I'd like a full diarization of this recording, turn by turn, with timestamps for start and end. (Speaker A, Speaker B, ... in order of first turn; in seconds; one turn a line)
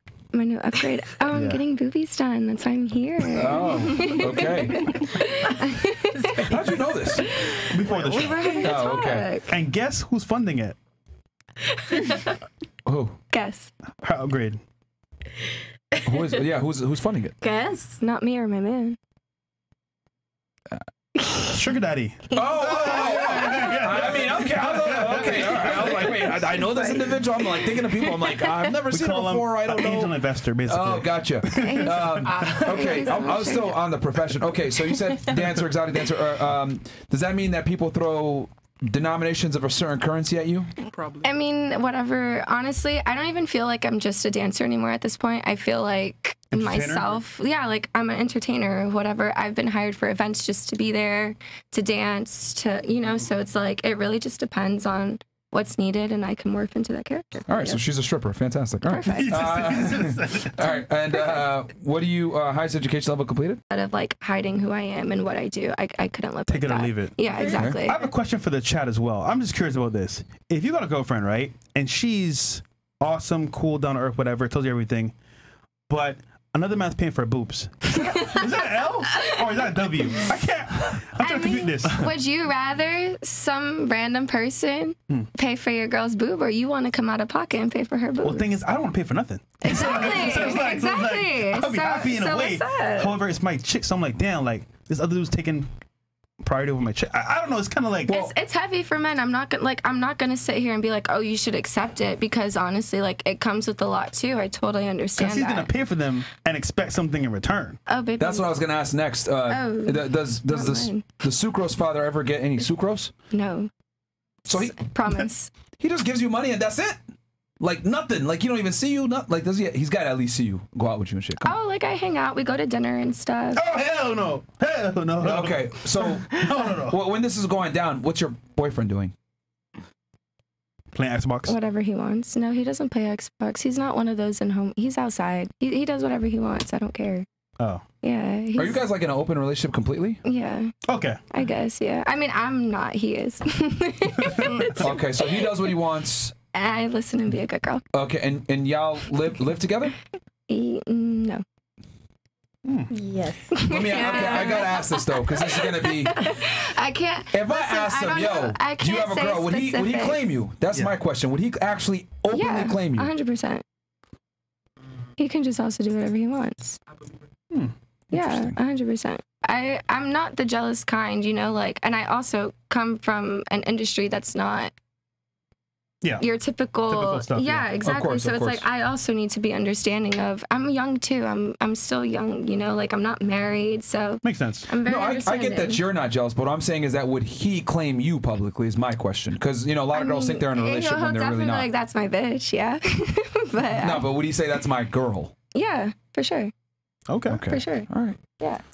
Speaker A: 0.3-6.6
Speaker B: 1.3-1.6
Speaker C: 3.4-4.9
Speaker C: 6.4-7.3
Speaker A: 7.2-9.5
Speaker B: 7.7-8.7
Speaker C: 8.6-9.4
Speaker B: 9.5-10.8
Speaker C: 12.8-13.2
Speaker A: 13.3-13.7
Speaker B: 14.0-14.6
Speaker C: 16.0-17.3
Speaker A: 17.9-19.0
Speaker B: 21.5-26.7
Speaker C: 22.3-40.7
Speaker B: 28.8-33.1
Speaker A: 31.5-33.8
Speaker A: 41.2-57.8
Speaker B: 46.5-47.2
Speaker C: 57.5-63.6
Speaker A: 58.9-59.4
Speaker B: 59.0-60.5
Speaker A: 63.7-68.1
Speaker B: 66.5-75.1
Speaker C: 67.4-67.8
Speaker B: 75.9-82.1
Speaker A: 79.1-79.4
Speaker A: 81.2-88.6
Speaker B: 88.2-95.7
Speaker A: 89.6-93.2
Speaker B: 96.4-98.3
Speaker A: 98.1-105.7
Speaker B: 105.1-107.8
Speaker A: 107.9-108.5
Speaker C: 108.2-113.1
Speaker A: 109.5-111.0
Speaker A: 113.3-113.7
Speaker A: 114.5-115.5
Speaker C: 114.5-114.8
Speaker C: 115.8-117.0
Speaker C: 117.6-121.5
Speaker A: 121.4-123.6
Speaker B: 123.5-127.0
Speaker C: 125.2-129.1
Speaker B: 130.9-131.6
Speaker A: 131.4-137.2
Speaker B: 137.6-137.8
Speaker A: 138.0-138.8
Speaker C: 138.5-140.2
Speaker A: 140.2-140.7
Speaker B: 140.8-141.2
Speaker A: 141.3-145.5
Speaker C: 144.8-146.3
Speaker A: 146.5-147.8
Speaker C: 147.9-149.9
Speaker A: 150.5-151.4
Speaker B: 152.6-152.9
Speaker A: 153.5-160.3
Speaker C: 153.7-156.2
Speaker C: 157.3-163.1
Speaker A: 162.3-163.6
Speaker A: 165.2-166.8
Speaker A: 168.1-174.7
Speaker C: 168.1-168.6
Speaker B: 176.0-177.8
Speaker A: 176.2-185.8
Speaker C: 177.8-178.6
Speaker B: 184.2-184.7
Speaker C: 184.8-191.7
Speaker A: 189.9-194.1
Speaker C: 193.8-195.3
Speaker A: 195.5-196.5
Speaker B: 197.1-197.4
Speaker C: 197.3-198.2
Speaker A: 197.4-197.9